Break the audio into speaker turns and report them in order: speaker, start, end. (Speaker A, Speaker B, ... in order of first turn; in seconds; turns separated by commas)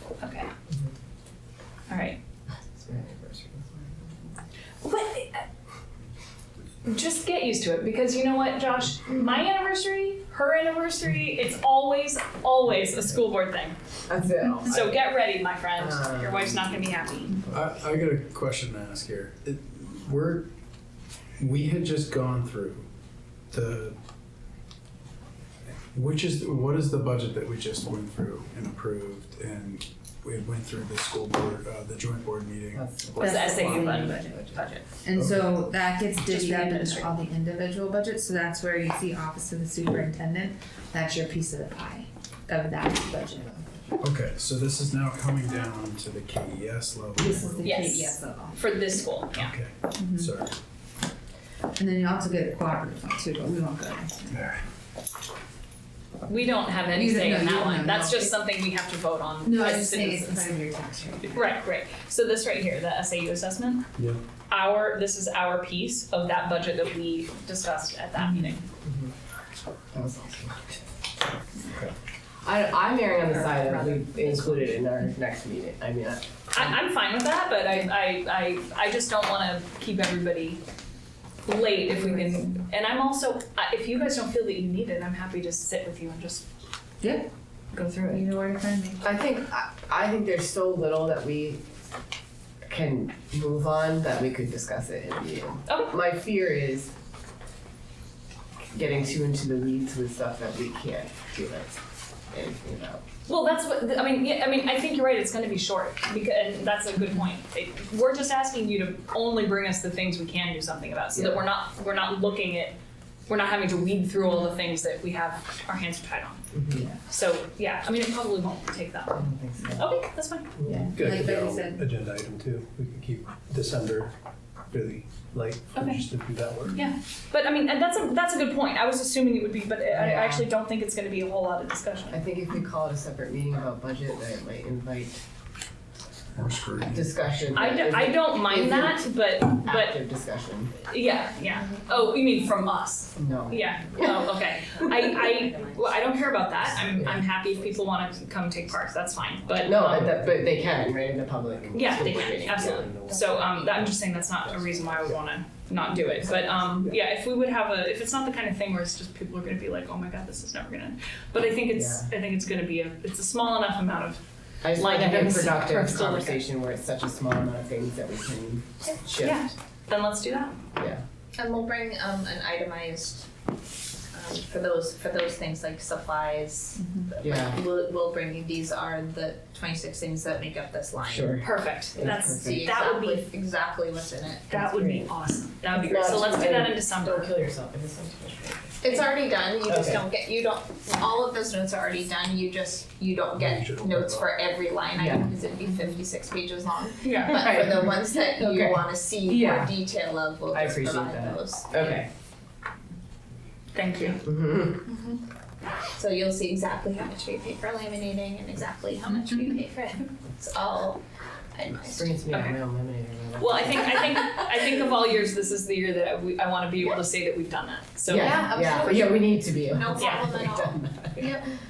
Speaker A: 0.2-0.5, Speaker A: 1.9-2.2, Speaker B: 2.7-4.3, Speaker A: 4.8-5.4, Speaker A: 6.8-13.8, Speaker B: 14.1-15.0, Speaker A: 14.6-17.4, Speaker B: 15.8-16.7, Speaker C: 17.5-20.5, Speaker C: 21.4-22.9, Speaker C: 23.5-23.9, Speaker C: 25.9-33.3, Speaker B: 32.7-34.6, Speaker A: 33.2-34.9, Speaker D: 33.2-43.5, Speaker C: 35.1-35.6, Speaker A: 36.2-37.1, Speaker C: 44.0-47.9, Speaker D: 47.1-48.7, Speaker A: 47.6-49.5, Speaker C: 49.3-50.5, Speaker D: 49.9-50.3, Speaker D: 51.8-54.5, Speaker C: 54.3-54.6, Speaker A: 56.2-60.6, Speaker D: 56.9-58.4, Speaker D: 59.4-61.5, Speaker A: 61.3-63.9, Speaker A: 64.5-68.7, Speaker B: 68.8-69.1, Speaker B: 69.9-70.8, Speaker B: 72.4-76.8, Speaker A: 73.1-74.7, Speaker A: 76.5-80.6, Speaker A: 81.4-86.4, Speaker D: 81.9-82.6, Speaker D: 87.0-87.3, Speaker A: 87.7-88.2, Speaker D: 88.1-89.1, Speaker B: 89.0-91.7, Speaker B: 92.7-96.9, Speaker A: 95.7-95.9, Speaker B: 98.7-101.8, Speaker B: 102.3-103.0, Speaker A: 103.3-112.8, Speaker B: 111.1-111.4, Speaker A: 113.3-116.4, Speaker B: 116.5-116.9, Speaker D: 116.7-117.0, Speaker A: 117.1-120.5, Speaker B: 119.1-119.9, Speaker E: 120.6-124.1, Speaker D: 120.6-121.8, Speaker E: 124.7-126.8, Speaker A: 125.7-126.0, Speaker A: 126.7-132.2, Speaker B: 129.9-130.5, Speaker B: 132.1-135.2, Speaker C: 136.3-137.4, Speaker B: 136.9-139.1, Speaker A: 137.5-140.0, Speaker B: 139.6-140.7, Speaker A: 140.8-150.2, Speaker B: 143.2-144.3, Speaker D: 144.6-146.2, Speaker B: 146.8-147.3, Speaker D: 146.9-148.2, Speaker B: 149.6-152.9, Speaker A: 151.7-166.4, Speaker E: 152.6-155.2, Speaker B: 161.7-162.1, Speaker B: 164.6-169.5, Speaker A: 169.1-170.6, Speaker B: 170.8-171.0, Speaker F: 171.3-173.3, Speaker F: 174.1-181.4, Speaker D: 176.8-177.1, Speaker B: 177.2-177.6, Speaker B: 181.0-182.7, Speaker A: 181.4-183.3, Speaker F: 182.0-184.5, Speaker A: 184.5-187.3, Speaker B: 184.5-185.1, Speaker B: 185.6-188.9, Speaker F: 188.8-202.0, Speaker B: 189.6-190.0, Speaker E: 193.4-194.3, Speaker B: 195.0-195.3, Speaker A: 197.0-197.5, Speaker B: 197.3-199.8, Speaker B: 200.5-202.1, Speaker A: 203.7-204.2, Speaker B: 204.2-204.8, Speaker F: 204.8-205.2, Speaker F: 206.0-211.0, Speaker F: 211.5-212.2, Speaker B: 211.9-214.5, Speaker A: 213.4-219.0, Speaker B: 218.1-221.3, Speaker F: 218.2-221.4, Speaker A: 219.9-220.4